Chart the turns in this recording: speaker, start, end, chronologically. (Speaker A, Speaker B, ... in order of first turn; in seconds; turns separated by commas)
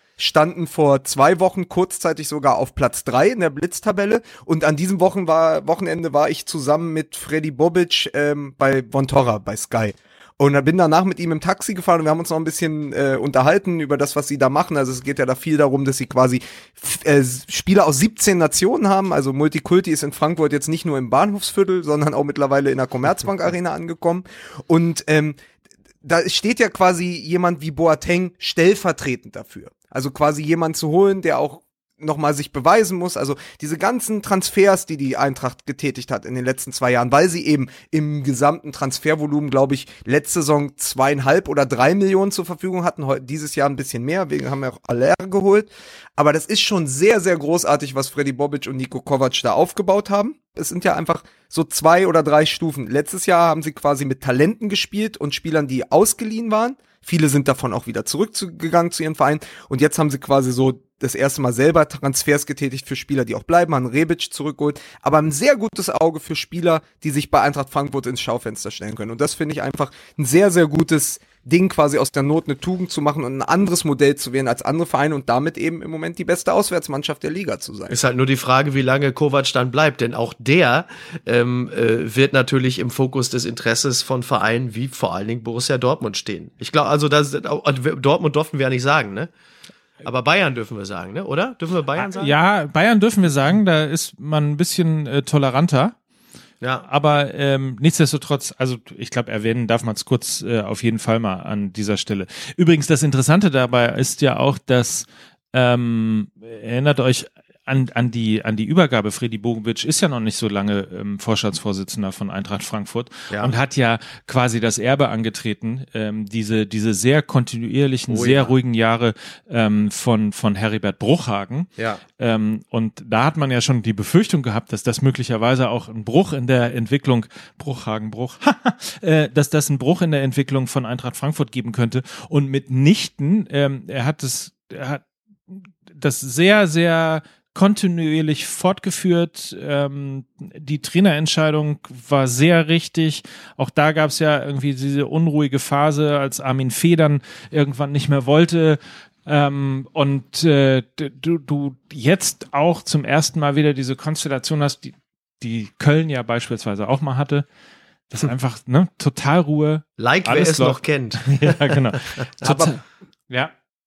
Speaker A: 0.2-25.4, Speaker A: 26.0-78.0, Speaker B: 77.9-89.3, Speaker B: 90.0-92.3, Speaker C: 92.0-96.0, Speaker B: 96.6-96.9, Speaker C: 96.9-157.5, Speaker B: 118.1-118.5, Speaker C: 158.1-163.5, Speaker B: 160.0-162.5, Speaker A: 162.4-162.8